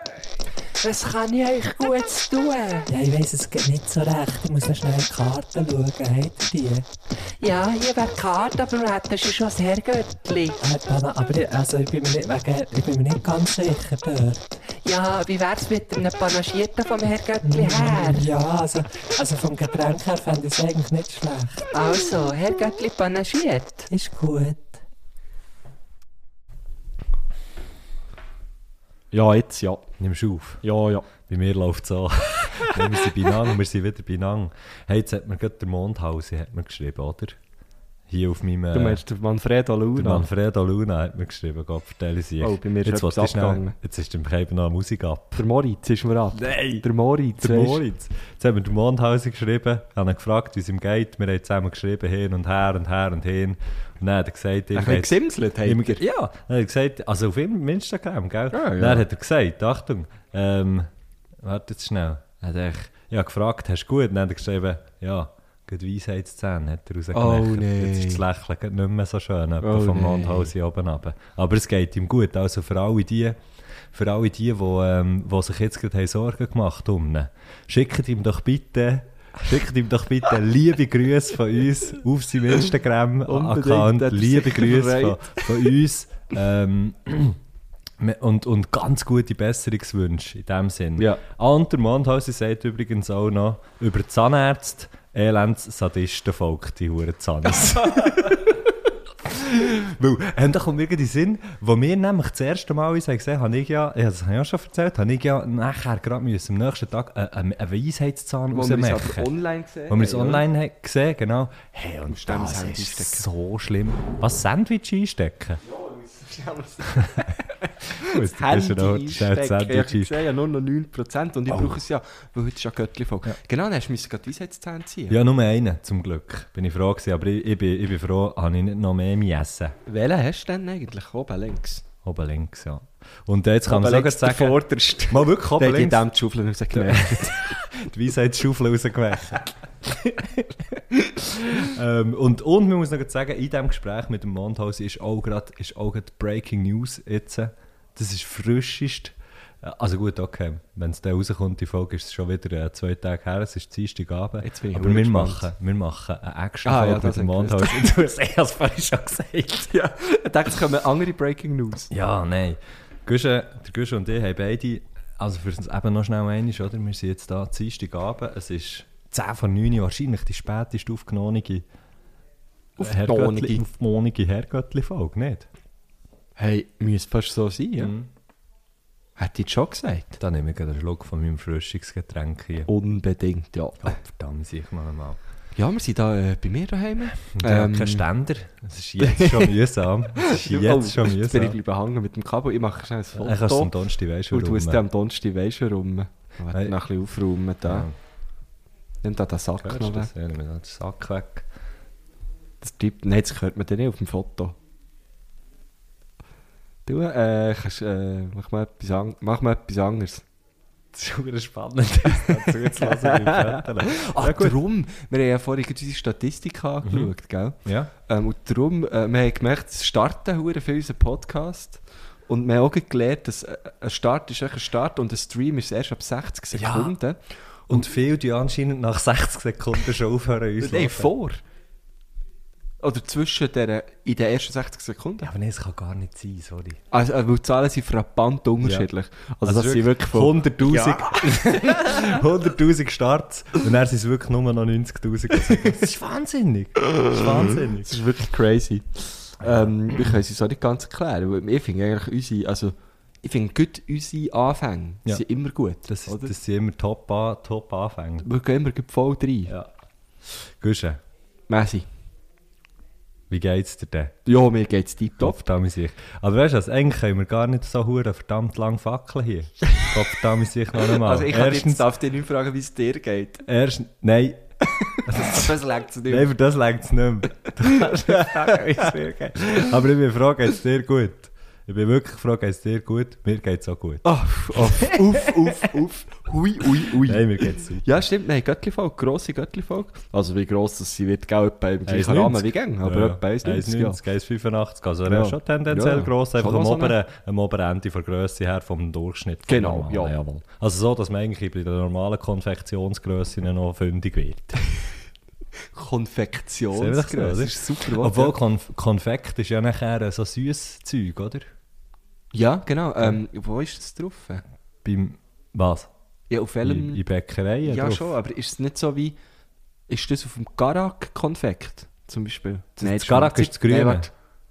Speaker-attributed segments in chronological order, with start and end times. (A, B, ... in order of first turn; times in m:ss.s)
0:00.8-0:02.9 A
0:02.9-0:06.8 B
0:07.4-0:10.7 A
0:10.6-0:14.6 B
0:14.7-0:18.3 A
0:17.4-0:21.7 B
0:21.7-0:23.9 A
0:23.9-0:24.8 B
0:29.1-0:29.8 C
0:30.0-0:30.6 D
0:30.6-0:31.1 C
0:31.1-0:37.4 D
0:38.1-0:39.0 D
0:38.7-0:40.2 C
0:40.0-0:45.4 D
0:42.4-0:43.8 C
0:45.3-0:47.8 C
0:46.3-0:46.8 D
0:47.4-1:13.4 D
0:54.7-0:56.0 C
0:58.5-0:59.0 C
1:07.1-1:08.2 C
1:09.6-1:10.5 C
1:13.9-1:27.4 D
1:23.2-1:25.7 C
1:28.0-1:38.6 D
1:31.0-1:31.2 C
1:39.2-1:49.3 D
1:48.5-1:50.4 C
1:49.9-1:55.6 D
1:52.1-1:53.2 C
1:55.7-2:05.2 C
1:57.0-1:57.3 D
1:58.0-2:00.2 D
2:01.5-2:01.8 D
2:05.1-2:09.8 D
2:09.8-2:11.8 C
2:12.0-2:16.0 D
2:13.7-2:17.5 C
2:16.7-2:20.6 D
2:21.2-2:39.7 D
2:34.4-2:35.5 C
2:36.6-2:37.9 C
2:39.7-2:41.9 C
2:41.9-2:51.6 D
2:52.8-2:53.6 C
2:52.8-2:55.5 D
2:56.4-2:57.9 C
2:57.8-2:58.1 D
2:59.2-3:00.2 C
3:00.2-3:02.7 D
3:02.7-3:04.0 C
3:03.8-3:05.2 D
3:05.6-3:08.1 C
3:07.3-3:11.6 D
3:09.0-3:09.6 C
3:10.1-3:13.7 C
3:13.1-3:14.8 D
3:14.3-3:17.9 C
3:17.6-3:17.9 D
3:19.0-3:20.1 C
3:19.6-3:21.5 D
3:22.6-3:24.5 C
3:26.8-3:30.2 C
3:30.9-3:34.6 D
3:32.2-3:47.9 C
3:36.8-3:37.1 D
3:37.6-3:37.9 D
3:46.5-3:46.9 D
3:47.7-3:51.1 D
3:50.6-3:51.4 C
3:52.8-3:55.3 C
3:55.2-3:56.8 D
3:56.9-4:02.2 C
3:58.6-3:58.9 D
3:59.4-4:08.0 D
4:06.9-4:16.3 C
4:15.8-4:18.3 D
4:18.2-4:19.5 C
4:20.3-4:21.0 D
4:21.5-4:21.9 C
4:23.3-4:24.1 D
4:24.2-4:25.4 C
4:25.2-4:31.8 D
4:30.8-4:33.4 C
4:33.4-4:34.4 D
4:34.8-4:36.3 C
4:35.0-4:35.5 D
4:36.1-4:44.0 D
4:37.7-4:39.7 C
4:44.0-4:54.0 C
4:44.6-4:45.5 D
4:46.9-4:47.8 D
4:51.8-5:04.6 D
4:55.0-4:57.0 C
4:59.5-5:00.2 C
5:05.7-5:08.4 C
5:06.7-5:11.5 D
5:12.3-5:14.4 C
5:14.8-5:15.9 D
5:16.3-5:17.0 C
5:16.6-5:18.1 D
5:17.6-5:19.2 C
5:19.9-5:24.1 C
5:22.8-5:24.1 D